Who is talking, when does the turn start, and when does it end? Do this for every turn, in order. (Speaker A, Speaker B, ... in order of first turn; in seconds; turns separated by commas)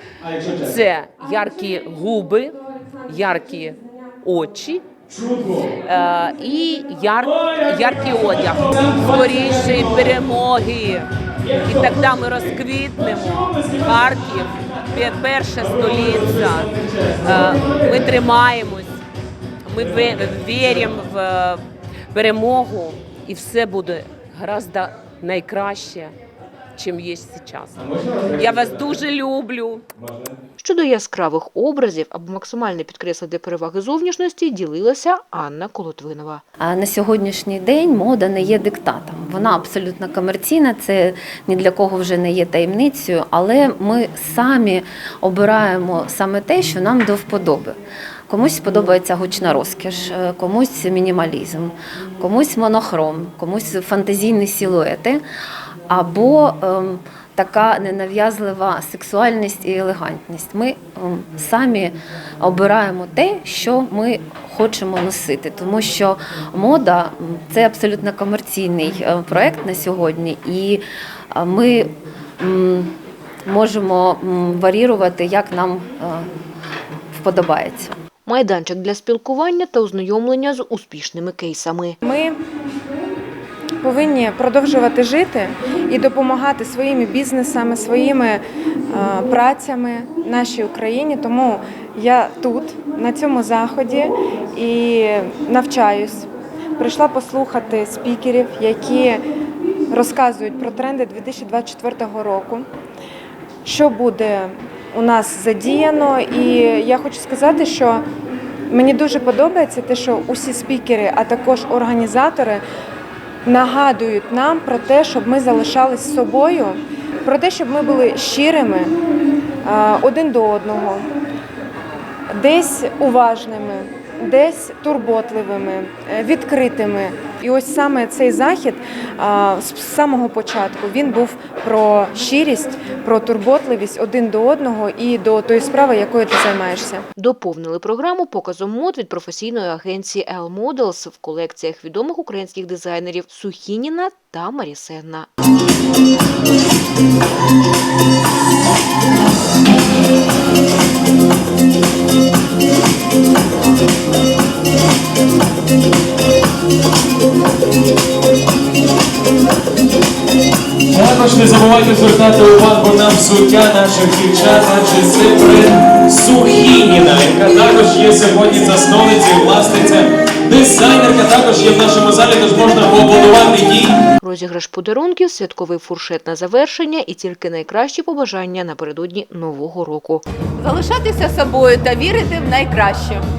Speaker A: 0.2-0.7, Speaker B: 0.7-4.9, Speaker A: 5.1-5.7, Speaker B: 5.8-11.1, Speaker B: 11.6-16.7, Speaker B: 17.2-18.9, Speaker B: 19.6-21.6, Speaker B: 22.1-26.1, Speaker B: 26.8-27.8, Speaker A: 28.0-28.6, Speaker B: 28.4-29.8, Speaker C: 30.6-36.4, Speaker D: 36.6-47.8, Speaker D: 48.3-55.2, Speaker D: 55.9-70.8, Speaker D: 71.3-72.9, Speaker D: 73.5-76.3, Speaker D: 77.1-77.9, Speaker C: 78.2-82.0, Speaker E: 82.0-82.4, Speaker E: 83.8-99.2, Speaker E: 99.9-102.7, Speaker E: 103.6-108.0, Speaker E: 108.7-112.6, Speaker E: 113.4-118.9, Speaker E: 119.6-121.1, Speaker E: 122.3-137.0, Speaker C: 137.2-145.3, Speaker A: 160.9-174.0, Speaker C: 174.2-180.2, Speaker F: 180.6-183.2